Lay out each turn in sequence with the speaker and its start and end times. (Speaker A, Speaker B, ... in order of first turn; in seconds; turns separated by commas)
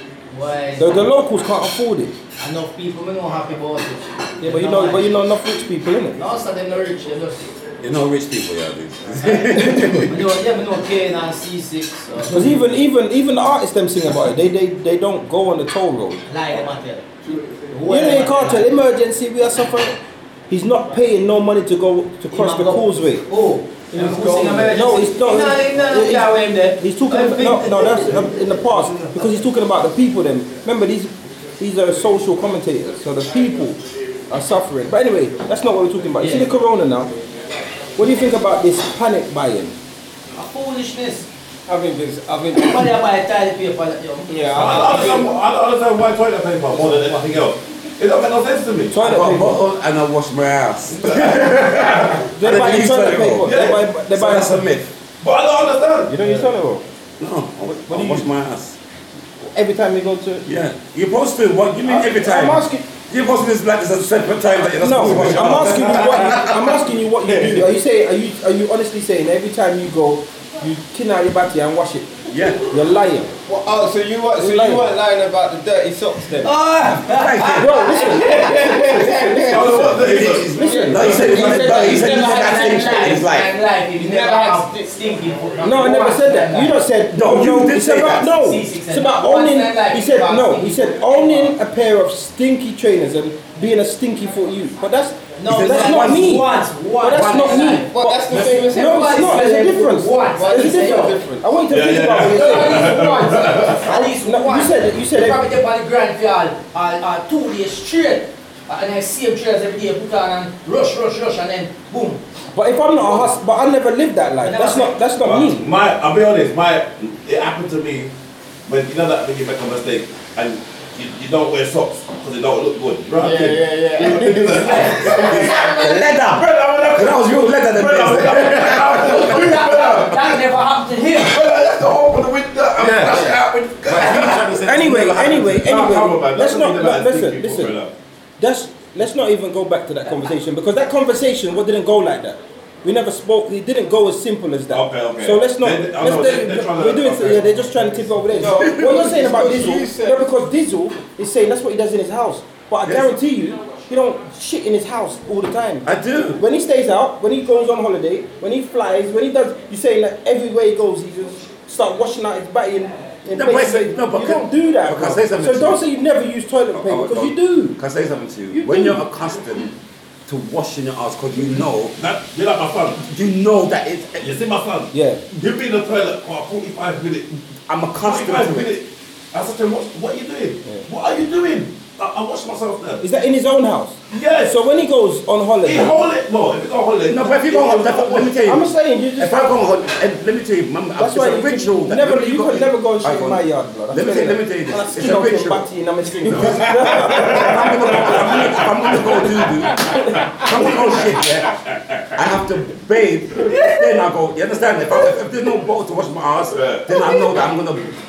Speaker A: 0.3-0.9, Speaker B: 0.8-2.2, Speaker A: 2.4-5.1, Speaker B: 4.4-6.2, Speaker A: 6.2-7.6, Speaker C: 7.8-10.2, Speaker A: 9.2-12.6, Speaker B: 9.6-10.0, Speaker B: 12.3-16.2, Speaker A: 16.3-18.7, Speaker B: 17.9-23.3, Speaker A: 22.3-28.2, Speaker D: 23.9-24.8, Speaker B: 24.7-37.1, Speaker A: 36.2-36.5, Speaker B: 38.0-39.8, Speaker A: 40.3-41.3, Speaker D: 41.7-42.9, Speaker A: 42.5-45.3, Speaker D: 44.3-45.3, Speaker E: 44.5-48.9, Speaker B: 48.9-49.6, Speaker C: 49.0-54.9, Speaker E: 50.9-52.3, Speaker B: 52.4-54.7, Speaker E: 53.4-53.8, Speaker E: 55.2-56.5, Speaker B: 56.1-56.9, Speaker C: 57.2-58.8, Speaker B: 57.7-58.3, Speaker B: 59.5-60.5, Speaker C: 60.5-66.9, Speaker B: 61.8-62.9, Speaker B: 64.8-73.3, Speaker D: 65.9-66.4, Speaker C: 72.3-72.7, Speaker D: 73.5-76.5, Speaker B: 74.4-74.9, Speaker A: 76.3-78.7, Speaker C: 77.0-77.9, Speaker B: 77.5-82.0, Speaker D: 77.5-79.9, Speaker E: 79.4-80.6, Speaker C: 79.5-83.5, Speaker D: 80.6-83.2, Speaker A: 81.2-86.8, Speaker D: 84.0-85.1, Speaker B: 85.6-103.1, Speaker C: 87.1-88.3, Speaker A: 88.3-91.6, Speaker A: 95.4-101.2, Speaker C: 95.5-96.5, Speaker C: 97.1-97.8, Speaker D: 97.9-99.4, Speaker D: 100.3-101.5, Speaker E: 101.7-103.8, Speaker A: 102.2-112.2, Speaker B: 103.8-105.4, Speaker B: 112.5-115.7, Speaker A: 114.4-115.0, Speaker E: 115.2-118.1, Speaker E: 118.7-130.4, Speaker D: 123.2-125.7, Speaker A: 124.6-125.9, Speaker C: 125.2-129.9, Speaker A: 129.1-131.4, Speaker E: 131.2-134.6, Speaker C: 132.8-135.6, Speaker D: 133.0-133.4, Speaker B: 134.6-137.8, Speaker E: 135.2-137.9, Speaker B: 138.4-167.8, Speaker E: 144.7-147.8, Speaker D: 148.3-150.3, Speaker C: 148.4-149.4, Speaker C: 152.8-153.1, Speaker C: 155.8-156.4, Speaker C: 163.3-165.8, Speaker C: 166.7-169.8, Speaker B: 168.5-169.0, Speaker C: 170.3-171.9, Speaker E: 172.0-173.1, Speaker C: 173.1-174.3, Speaker E: 174.2-177.3, Speaker B: 174.9-175.2, Speaker C: 177.7-178.7, Speaker E: 178.0-183.0, Speaker B: 183.0-186.1, Speaker E: 184.1-184.6, Speaker E: 185.6-188.4, Speaker C: 187.1-195.7, Speaker B: 188.4-189.4, Speaker B: 191.0-197.8, Speaker C: 196.2-201.6, Speaker E: 196.3-199.5, Speaker E: 200.4-200.9, Speaker C: 202.2-207.9, Speaker E: 206.5-206.9